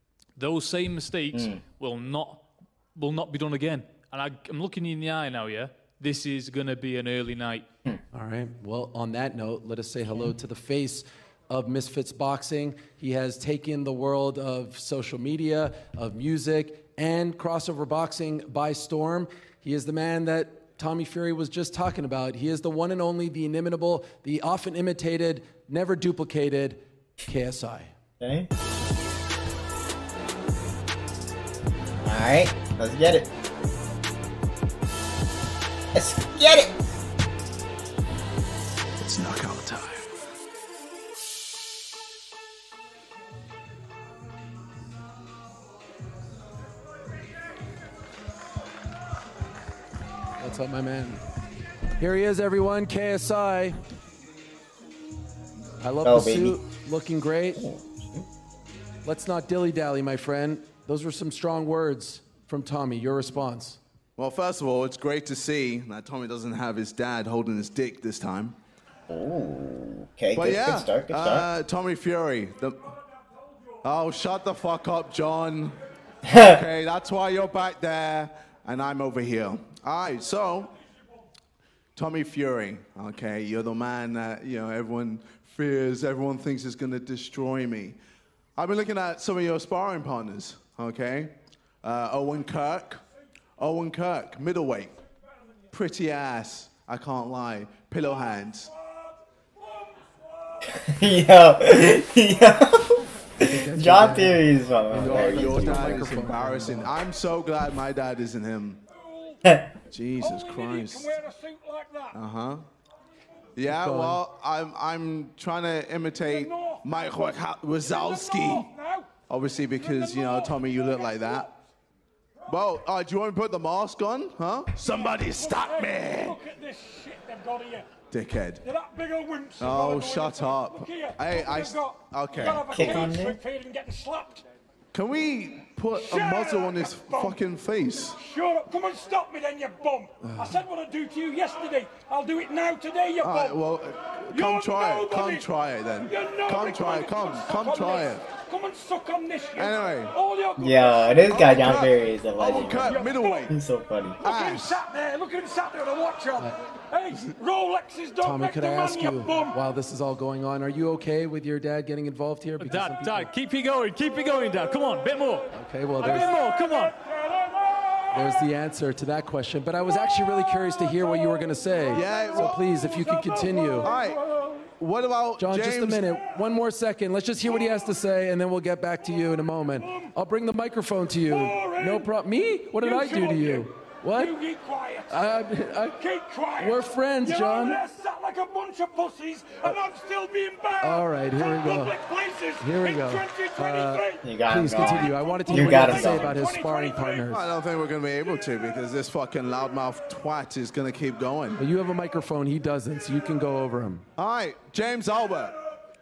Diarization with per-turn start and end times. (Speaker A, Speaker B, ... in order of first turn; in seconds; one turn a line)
Speaker A: 0.4-7.7
Speaker B: 1.3-1.6
Speaker C: 8.1-27.9
Speaker B: 28.2-28.5
Speaker B: 32.0-33.3
Speaker B: 35.9-36.7
Speaker D: 39.0-40.0
Speaker C: 50.4-51.2
Speaker C: 52.0-53.8
Speaker C: 55.8-57.6
Speaker B: 56.0-56.6
Speaker B: 57.5-58.2
Speaker C: 59.0-63.8
Speaker D: 64.2-68.5
Speaker B: 69.1-71.5
Speaker D: 70.3-72.9
Speaker D: 73.8-75.8
Speaker B: 76.2-76.6
Speaker D: 76.3-80.7
Speaker D: 82.0-88.0
Speaker D: 88.6-93.0
Speaker D: 93.6-95.0
Speaker D: 95.7-98.7
Speaker B: 100.7-106.0
Speaker C: 103.4-106.9
Speaker D: 105.0-108.8
Speaker E: 109.0-109.4
Speaker D: 109.9-111.2
Speaker E: 110.2-112.2
Speaker D: 112.1-112.6
Speaker D: 113.5-118.7
Speaker C: 113.6-114.2
Speaker E: 116.2-117.0
Speaker E: 117.8-119.1
Speaker D: 119.3-121.5
Speaker E: 119.7-121.5
Speaker D: 122.5-126.4
Speaker E: 124.8-127.9
Speaker D: 128.1-128.6
Speaker E: 128.6-134.4
Speaker D: 129.6-133.2
Speaker B: 132.3-133.4
Speaker D: 134.9-138.2
Speaker E: 135.9-137.4
Speaker E: 138.2-143.6
Speaker D: 140.2-140.6
Speaker D: 143.2-148.2
Speaker E: 144.3-145.5
Speaker E: 146.0-151.4
Speaker D: 149.6-150.1
Speaker B: 150.6-154.2
Speaker D: 151.3-153.5
Speaker E: 152.8-153.5
Speaker E: 154.2-159.6
Speaker D: 154.2-154.8
Speaker C: 158.2-163.3
Speaker A: 162.6-166.9
Speaker E: 164.3-165.2
Speaker C: 165.5-166.3
Speaker E: 166.0-168.5
Speaker C: 168.1-173.9
Speaker E: 169.8-174.7
Speaker D: 171.9-172.8
Speaker D: 173.8-174.2
Speaker D: 174.7-176.2
Speaker C: 175.4-184.4
Speaker E: 177.4-177.9
Speaker E: 179.7-180.1
Speaker E: 181.3-182.1
Speaker E: 182.7-185.3
Speaker C: 185.1-186.0
Speaker E: 185.9-197.3
Speaker C: 186.6-187.8
Speaker C: 190.8-192.0
Speaker C: 192.6-197.4
Speaker B: 194.2-196.4
Speaker D: 197.3-201.6
Speaker C: 201.6-204.0
Speaker D: 204.2-205.6